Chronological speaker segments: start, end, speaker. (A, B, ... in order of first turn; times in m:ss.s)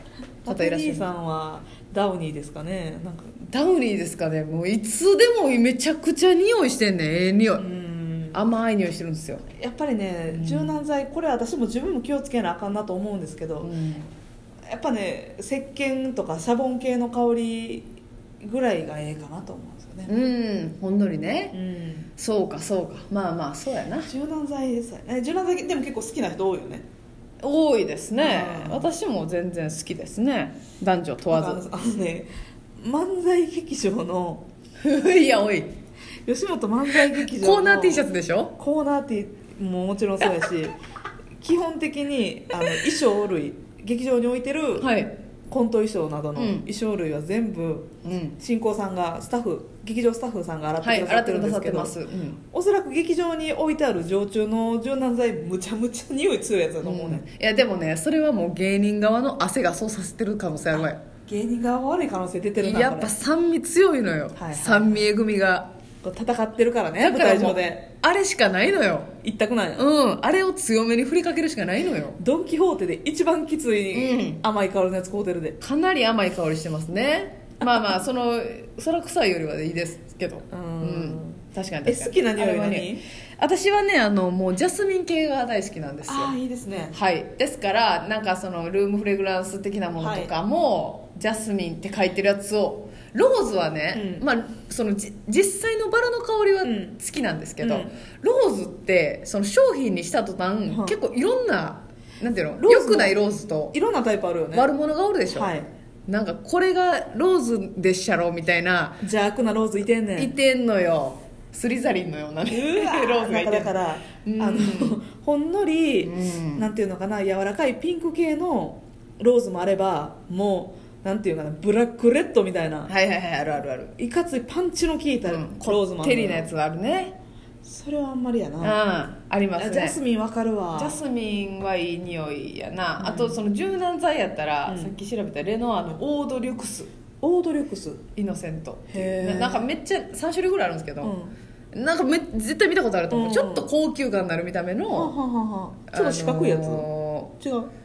0:00.4-0:03.4 A
0:00.5-0:01.1 B
0:03.4-0:07.6 B
0:07.6-0:08.4 A
0:08.3-0:09.5 B
0:09.6-0:13.7 A
0:10.3-0:10.8 B
0:13.6-0:14.1 B
0:14.7-0:20.1 A
0:20.1-0:21.6 B
0:21.5-0:22.1 A
0:22.2-0:24.1 B
0:24.1-0:26.8 A
0:27.4-0:31.6 B
0:28.2-0:28.9 A
0:31.3-0:34.5 A
0:34.8-0:35.7 B
0:36.3-0:40.7 A
0:37.2-0:38.5 B
0:41.4-0:44.9 A
0:44.8-0:45.2 B
0:45.5-0:52.0 A
0:46.4-0:46.7 B
0:48.0-0:48.4 B
0:50.8-0:52.4 B
0:52.5-0:57.2 A
0:56.8-1:01.0 B
1:00.7-1:03.1 A
1:02.6-1:05.7 B
1:04.4-1:05.1 A
1:06.0-1:07.8 A
1:07.0-1:09.1 B
1:09.2-1:09.9 A
1:09.8-1:12.2 B
1:12.2-1:15.6 A
1:13.9-1:14.4 B
1:15.6-1:26.4 B
1:17.6-1:17.9 A
1:20.5-1:23.0 A
1:26.0-1:27.0 A
1:26.9-1:43.8 B
1:30.0-1:30.3 A
1:33.9-1:34.3 A
1:36.6-1:37.0 A
1:37.6-1:37.9 A
1:40.7-1:41.0 A
1:42.6-1:44.7 A
1:44.5-1:45.5 B
1:45.3-1:45.7 A
1:46.1-1:49.0 B
1:49.0-1:50.3 A
1:50.2-1:53.7 B
1:52.5-2:02.9 A
1:54.2-1:55.0 B
1:56.0-1:56.7 B
2:02.9-2:03.9 B
2:04.0-2:06.5 A
2:05.3-2:07.2 B
2:07.6-2:08.8 A
2:08.6-2:10.0 B
2:09.6-2:11.0 A
2:10.8-2:16.9 B
2:13.0-2:13.4 A
2:14.7-2:14.9 A
2:17.2-2:18.0 A
2:18.2-2:21.1 B
2:18.9-2:19.7 A
2:21.0-2:21.3 A
2:21.7-2:25.1 B
2:23.1-2:23.7 A
2:24.9-2:26.9 A
2:25.9-2:27.3 B
2:27.4-2:27.7 A